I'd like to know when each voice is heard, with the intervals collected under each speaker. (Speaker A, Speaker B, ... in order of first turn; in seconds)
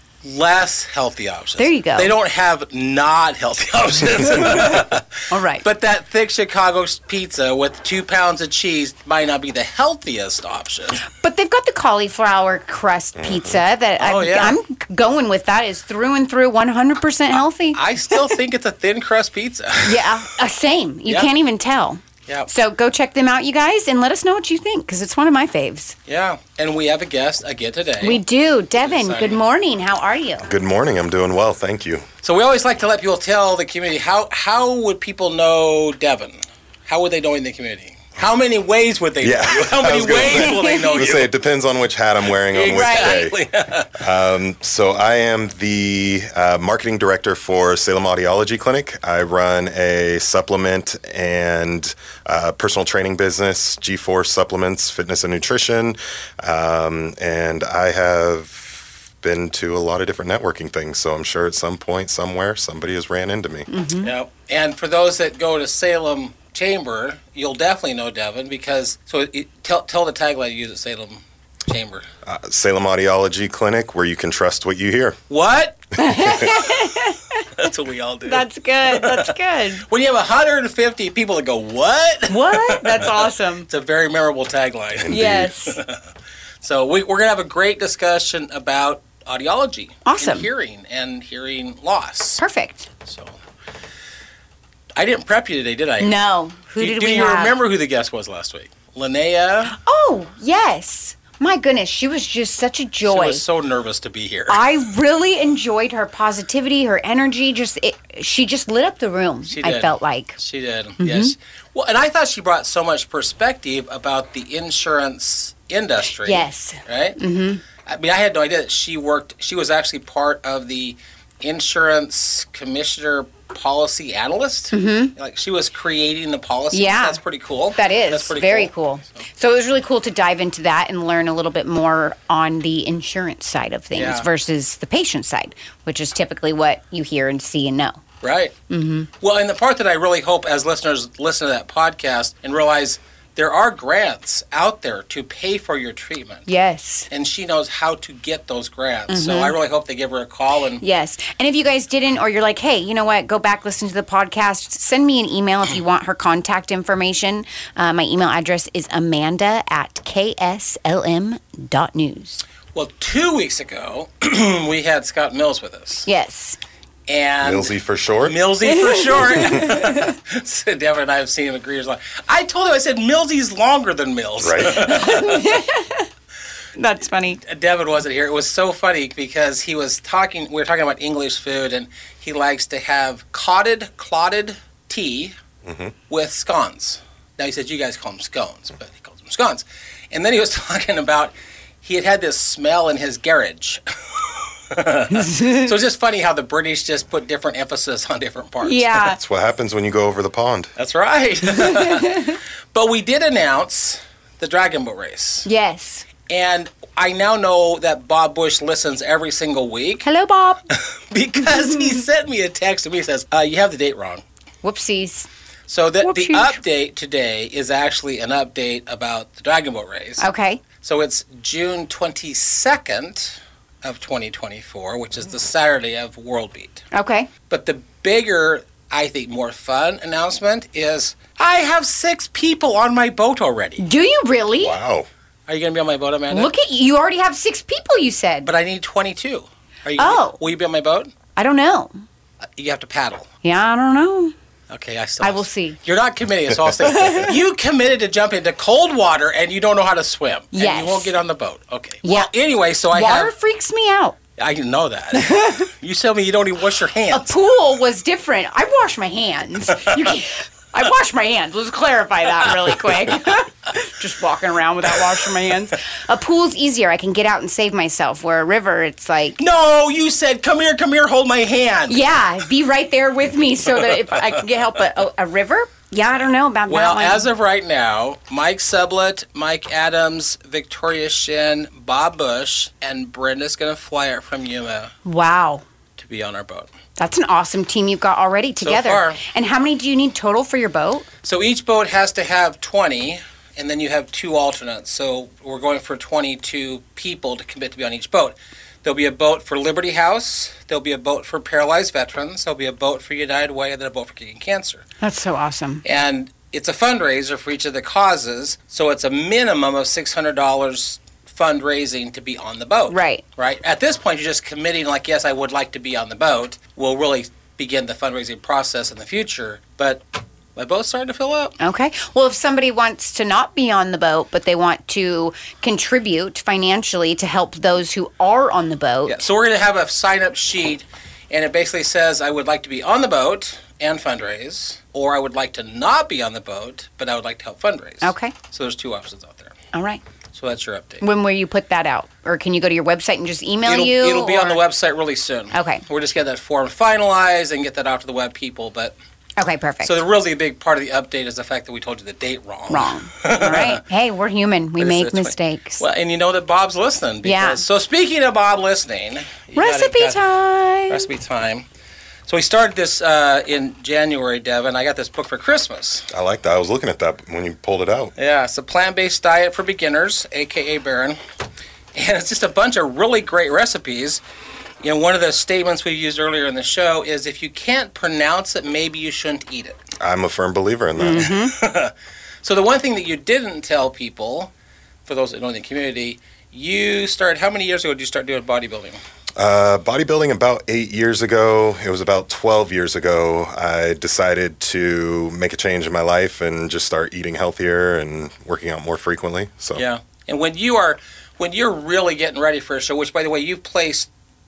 Speaker A: 0.2-11.1, 14.0-14.6, 17.7-20.1, 26.1-28.2, 28.8-29.4, 32.2-41.3, 42.4-44.0, 64.0-72.1, 75.3-76.6, 77.5-86.0, 86.6-92.4, 93.1-93.3, 95.0-96.2, 96.8-99.7, 103.0-104.7, 109.5-117.2, 117.9-128.7, 133.9-134.3, 138.2-138.5, 139.2-146.5, 147.1-150.8, 162.7-166.1, 167.1-175.7, 177.4-185.3, 186.1-199.0, 200.8-205.5, 206.3-210.1, 211.1-214.2, 215.7-220.2, 220.8-226.8, 227.5-233.8, 235.5-236.5, 238.5-241.1, 242.6-243.3, 244.7-253.3, 254.4-257.3, 269.4-272.0, 276.7-284.9, 286.0-286.7, 288.6-289.2, 291.2-304.8, 305.9-320.0, 320.6-321.6, 329.1-339.6, 340.4-341.0, 343.7-348.9, 349.8-353.8, 354.8-360.2, 360.9-361.6, 362.3-366.1, 368.2-371.2, 371.9-374.2, 374.8-379.8, 381.1-384.5, 385.1-389.0, 399.8-404.1
Speaker B: 1.6-2.1, 5.3-5.7, 11.1-17.8, 19.8-26.0, 28.0-30.5, 40.4-41.0, 42.7-43.3, 63.7-64.1, 76.0-77.6, 78.3-79.9, 82.3-83.7, 85.1-85.8, 90.0-90.5, 92.4-92.9, 96.0-97.5, 99.7-103.4, 104.5-110.4, 111.0-111.3, 116.2-117.6, 124.7-125.1, 126.7-127.2, 127.8-138.0, 138.7-139.1, 146.5-147.1, 149.1-149.6, 150.8-162.4, 166.1-166.6, 168.6-170.1, 174.8-176.1, 176.8-177.4, 195.1-195.7, 198.6-199.2, 201.6-202.4, 205.4-206.1, 210.0-210.6, 214.6-215.3, 216.0-216.6, 220.2-220.6, 226.9-227.3, 233.8-234.8, 236.3-238.5, 240.0-240.4, 241.4-241.9, 243.4-244.3, 245.2-245.8, 246.9-247.3, 250.5-251.2, 252.0-252.3, 252.9-254.2, 255.1-255.7, 257.1-269.4, 271.9-277.3, 285.1-285.6, 287.0-291.1, 305.0-305.8, 312.9-313.2, 321.6-329.2, 338.0-338.4, 339.7-340.0, 341.0-344.6, 345.5-345.8, 349.4-350.0, 352.7-355.8, 357.2-357.6, 359.6-361.1, 381.0-381.6
Speaker C: 13.2-13.6, 30.4-32.1, 39.2-43.4, 44.0-63.7, 72.2-75.2, 85.0-85.5, 167.4-168.4, 174.4-175.0, 185.6-185.9, 199.0-200.7, 234.6-235.1, 366.1-368.1, 380.0-381.3, 389.4-399.8